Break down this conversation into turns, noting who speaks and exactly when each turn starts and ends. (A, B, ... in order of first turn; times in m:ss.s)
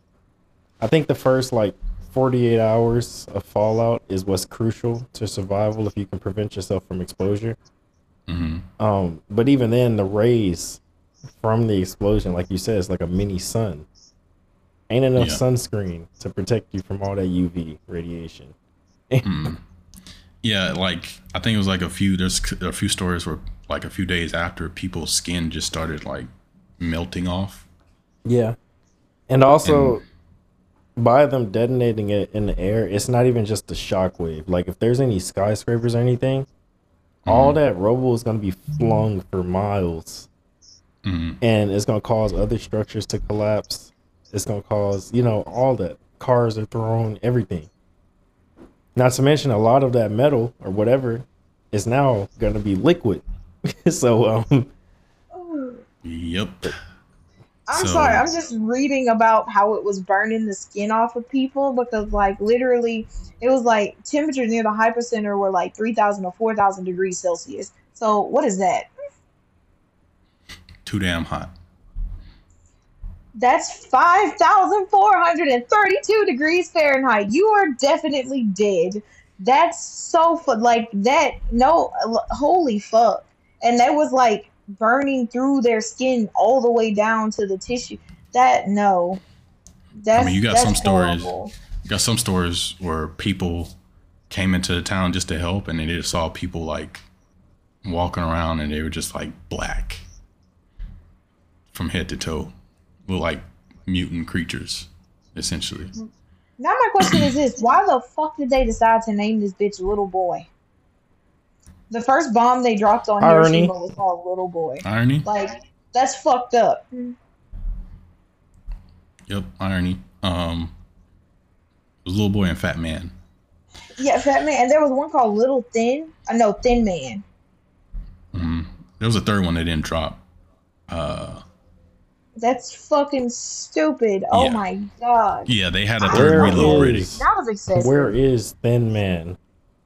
0:00.8-0:07.6 A
0:08.3-0:08.7 B
0:08.8-0:10.8 A
0:11.3-0:13.8 A
0:14.9-0:18.5 A
0:15.2-0:15.4 B
0:19.1-0:19.5 A
0:19.2-0:19.6 B
0:20.4-0:26.3 B
0:26.8-0:27.7 B
0:28.2-0:28.6 A
0:29.3-0:30.0 A
0:29.6-0:30.0 B
0:31.0-0:36.5 A
0:37.2-0:37.6 B
0:37.3-0:40.3 A
0:41.0-0:41.4 B
0:41.4-0:47.7 A
0:48.9-0:54.7 A
0:55.3-0:55.8 C
0:56.0-0:56.8 B
0:57.7-1:08.9 C
0:57.7-0:58.2 B
1:10.8-1:11.5 B
1:13.4-1:29.2 C
1:30.0-1:31.5 C
1:30.1-1:31.3 B
1:31.8-1:33.7 B
1:34.3-1:37.0 B
1:37.8-1:40.0 B
1:41.7-1:42.5 B
1:43.1-1:45.9 B
1:46.6-1:50.5 C
1:51.9-1:57.2 C
1:53.2-1:53.7 A
1:54.8-1:55.2 B
1:59.3-2:00.7 B
2:02.0-2:03.1 B
2:04.0-2:07.2 C
2:08.3-2:10.2 B
2:10.9-2:11.4 B
2:12.4-2:15.5 C
2:14.3-2:14.6 B
2:15.5-2:17.1 B
2:16.0-2:18.1 C
2:16.1-2:17.2 A
2:17.7-2:19.4 A